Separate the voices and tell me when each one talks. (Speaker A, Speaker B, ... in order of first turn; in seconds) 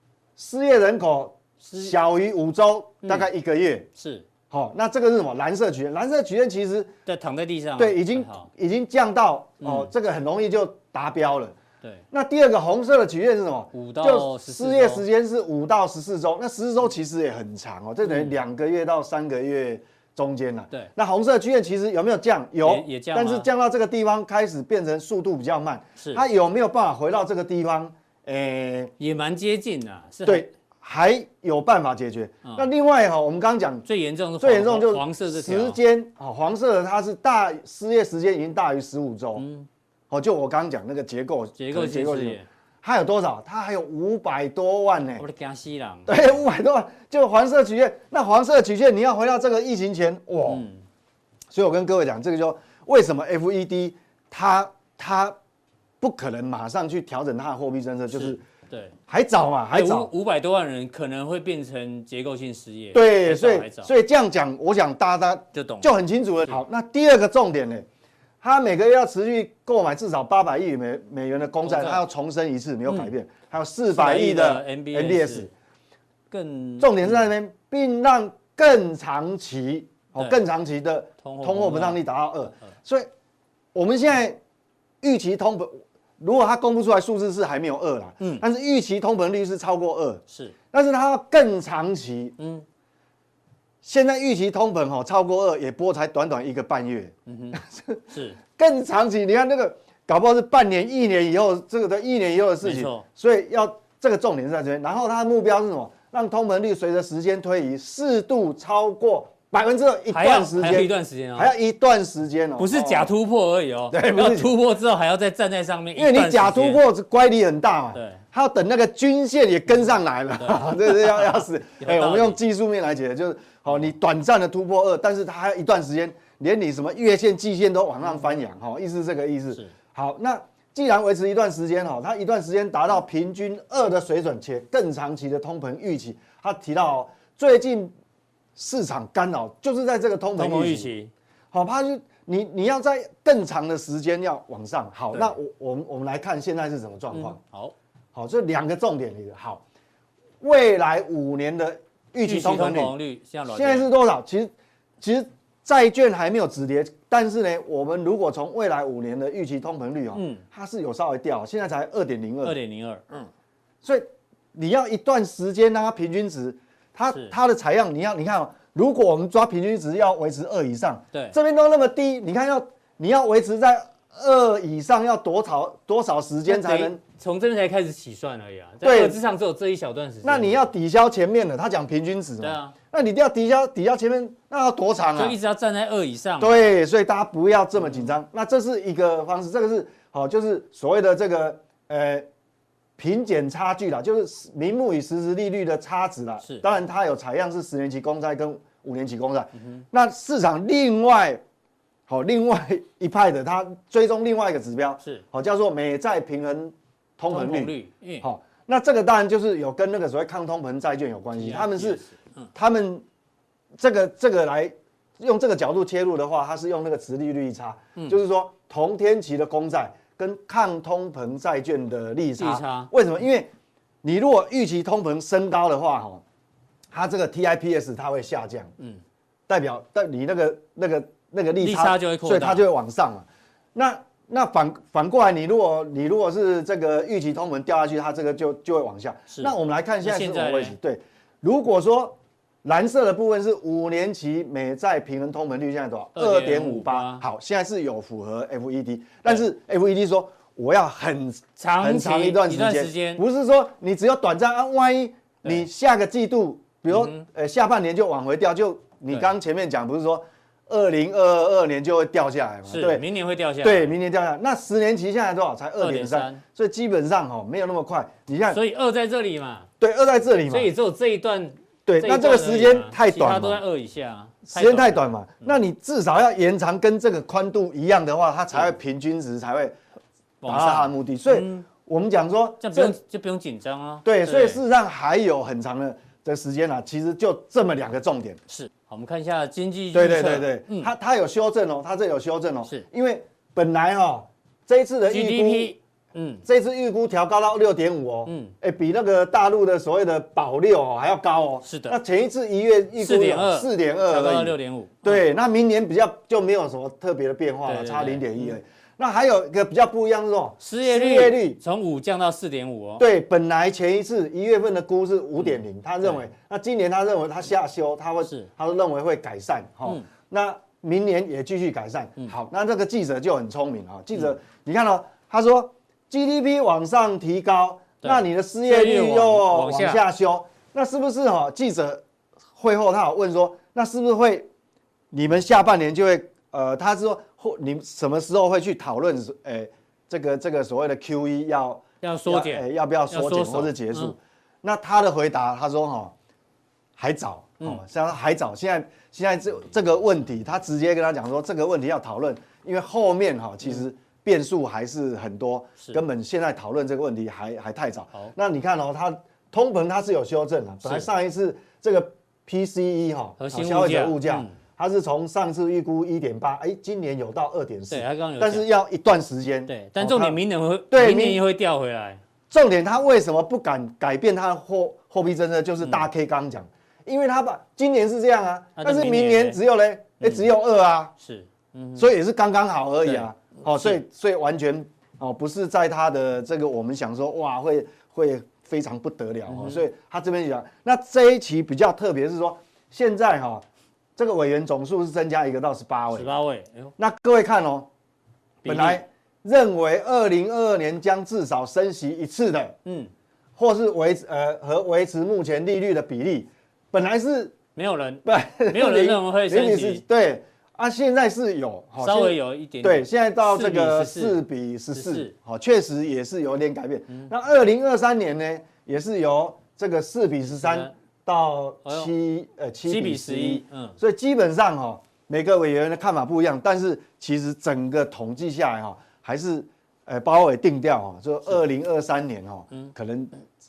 Speaker A: 0.4-3.9, 4.5-6.9, 7.8-11.6, 12.1-28.9, 30.3-33.9, 34.4-39.5, 40.1-45.2, 46.1-50.7, 51.5-55.4, 56.0-58.4, 59.1-60.1, 62.9-67.8, 68.4-75.5, 76.8-83.1, 83.7-84.4, 85.0-92.4, 93.8-98.0, 98.5-113.1, 113.9-114.5, 116.0-137.9, 138.6-140.9, 141.5-147.4, 148.1-149.6, 150.4-152.9, 153.5-162.6, 163.8-177.0, 178.8-179.2, 180.2-185.4, 186.4-192.3, 193.0-201.4, 202.1-212.0, 212.6-213.0, 213.8-223.5, 224.0-226.2, 226.9-228.7, 229.5-263.0, 263.6-268.6, 269.8-270.7, 271.9-273.6, 274.5-279.8, 280.5-283.0, 284.1-288.4, 289.9-295.8, 296.4-311.6, 313.0-332.0, 332.6-334.5, 335.1-346.1, 347.0-370.4, 370.9-371.4, 372.5-381.1, 382.0-393.6, 394.2-396.3, 397.0-397.9, 398.6-402.8, 403.6-407.6, 408.2-433.3
Speaker B: 1.6-1.9, 4.0-4.3, 7.1-8.5, 9.6-9.9, 13.7-15.0, 18.0-18.4, 22.6-23.5, 26.0-26.2, 29.0-30.5, 33.9-35.8, 39.4-39.7, 41.6-42.5, 45.2-46.4, 50.5-50.8, 58.1-58.9, 59.7-63.9, 65.5-65.9, 71.7-72.0, 73.9-75.5, 76.3-77.3, 81.2-82.0, 90.3-90.5, 92.4-92.7, 97.3-97.6, 98.1-98.4, 102.6-103.0, 110.1-111.5, 112.6-116.8, 117.9-118.2, 120.4-122.4, 140.4-141.1, 147.1-147.7, 152.2-153.9, 160.1-160.4, 162.4-163.0, 167.1-167.4, 176.5-180.7, 182.4-182.8, 185.2-186.8, 187.8-188.1, 199.6-199.8, 207.3-208.3, 211.4-212.5, 222.4-222.9, 231.6-232.7, 239.3-240.8, 246.2-247.2, 251.6-253.2, 256.9-257.2, 262.7-263.9, 265.8-266.4, 268.5-269.7, 270.5-275.6, 280.4-281.7, 282.6-284.6, 288.5-290.9, 295.1-296.4, 298.3-298.5, 301.6-302.0, 303.0-305.2, 307.6-308.6, 310.6-313.1, 315.4-316.2, 318.2-318.5, 328.0-330.0, 342.0-344.1, 360.8-361.1, 363.4-364.5, 367.9-368.7, 369.7-372.2, 378.8-379.6, 380.2-380.5, 381.2-382.1, 383.1-384.0, 389.5-389.8, 396.1-396.9, 398.6-399.1, 402.9-403.1, 407.8-410.0, 412.0-414.4, 414.9-415.3, 420.6-420.9, 421.9-422.1, 422.9-424.0